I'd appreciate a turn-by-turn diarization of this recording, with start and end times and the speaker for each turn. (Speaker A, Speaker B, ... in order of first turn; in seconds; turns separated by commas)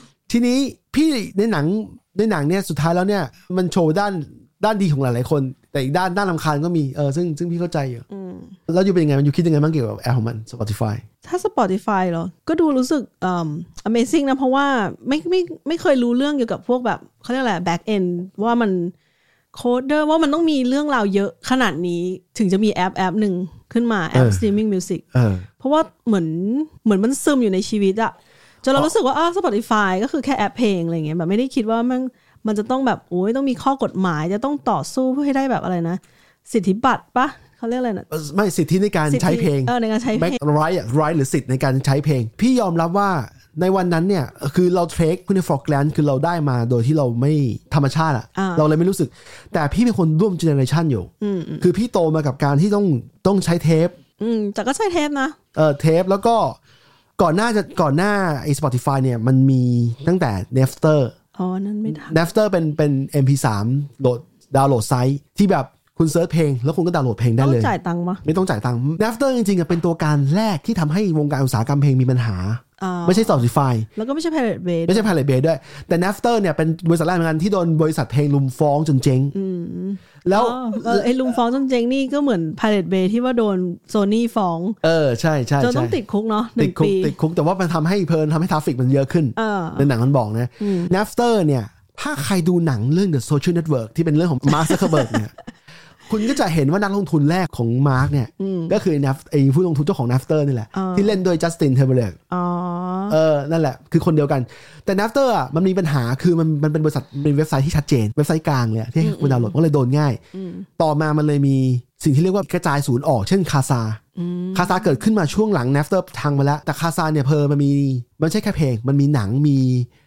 Speaker A: 0.3-8.0, Speaker B: 8.1-8.6, Speaker A: 8.7-11.0, Speaker B: 11.2-18.9, Speaker B: 19.5-25.0, Speaker A: 24.1-24.5, Speaker A: 25.1-25.5, Speaker B: 25.6-38.1, Speaker A: 38.1-54.0, Speaker B: 39.1-40.4, Speaker B: 48.3-48.7, Speaker B: 51.2-51.7, Speaker B: 54.2-55.4, Speaker A: 55.5-56.6, Speaker A: 57.2-61.1, Speaker B: 61.4-62.2, Speaker A: 61.9-73.9, Speaker B: 67.4-68.2, Speaker B: 72.8-73.4, Speaker B: 73.9-75.1, Speaker A: 74.9-79.3, Speaker B: 79.3-84.8, Speaker A: 80.2-81.3, Speaker A: 84.8-86.0, Speaker B: 85.6-87.1, Speaker A: 86.6-95.3, Speaker B: 89.3-89.9, Speaker B: 90.6-90.9, Speaker B: 94.5-95.2, Speaker A: 96.1-102.2, Speaker B: 98.4-98.8, Speaker B: 100.7-101.2, Speaker B: 102.3-103.2, Speaker A: 103.1-110.2, Speaker B: 109.0-109.5, Speaker B: 110.3-110.7, Speaker A: 110.8-114.0, Speaker B: 114.2-114.9, Speaker A: 114.5-119.9